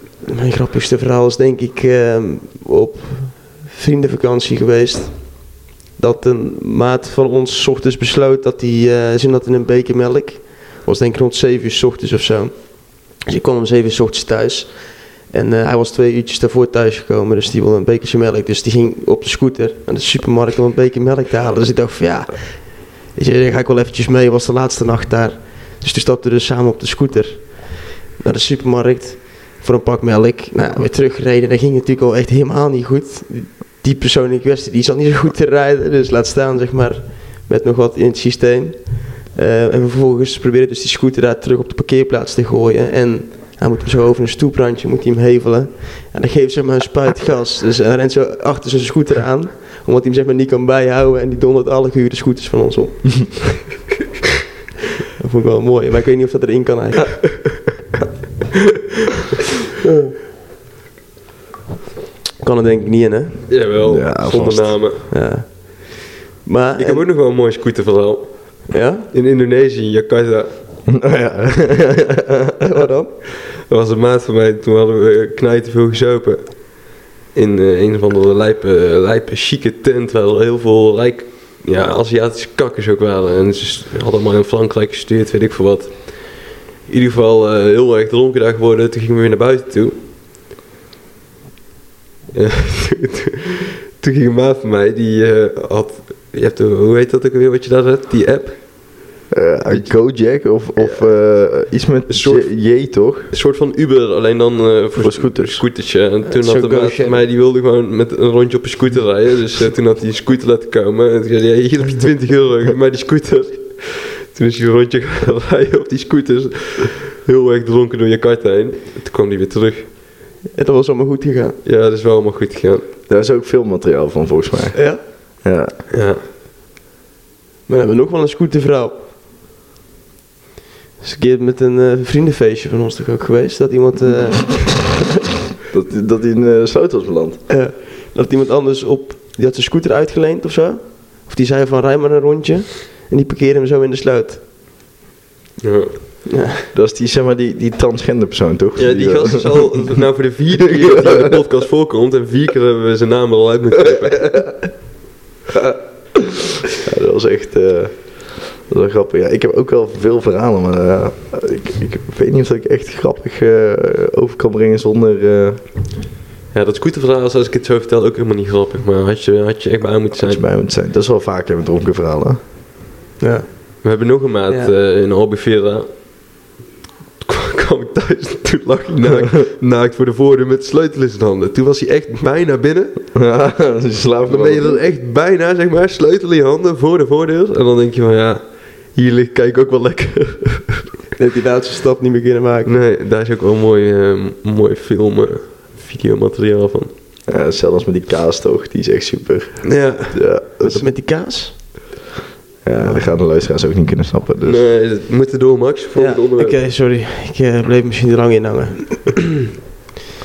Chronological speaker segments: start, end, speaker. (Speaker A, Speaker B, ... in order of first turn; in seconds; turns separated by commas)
Speaker A: 0.2-53.6, Speaker A: 55.2-57.5, Speaker A: 59.9-60.1, Speaker A: 62.4-63.5, Speaker B: 63.5-65.1, Speaker C: 63.8-64.8, Speaker A: 65.1-67.1, Speaker B: 66.8-70.6, Speaker A: 68.7-69.1, Speaker C: 70.9-72.5, Speaker A: 72.6-73.2, Speaker B: 73.6-90.0, Speaker B: 92.3-99.1, Speaker C: 99.3-103.3, Speaker B: 99.7-100.0, Speaker B: 102.1-119.9, Speaker C: 105.0-105.6, Speaker A: 106.2-107.2, Speaker A: 120.5-121.6, Speaker B: 121.6-122.9, Speaker C: 123.1-125.7, Speaker A: 124.8-125.0, Speaker B: 125.9-126.2, Speaker A: 127.7-129.0, Speaker A: 131.0-135.0, Speaker C: 135.7-137.4, Speaker A: 137.5-144.4, Speaker B: 145.6-146.0, Speaker A: 146.3-146.7, Speaker C: 146.7-149.9, Speaker B: 148.8-154.7, Speaker C: 150.6-151.3, Speaker C: 155.6-156.2, Speaker C: 156.8-165.6, Speaker B: 166.5-170.4, Speaker C: 170.2-172.4, Speaker A: 173.2-173.8, Speaker B: 173.8-175.9, Speaker B: 177.2-183.1, Speaker C: 183.2-184.8, Speaker B: 184.3-190.9, Speaker A: 191.2-192.7, Speaker B: 192.7-196.9, Speaker C: 197.3-200.9, Speaker B: 199.7-200.3, Speaker A: 200.6-201.9, Speaker C: 202.6-204.6, Speaker A: 202.8-203.1, Speaker B: 204.4-206.6, Speaker A: 205.9-209.4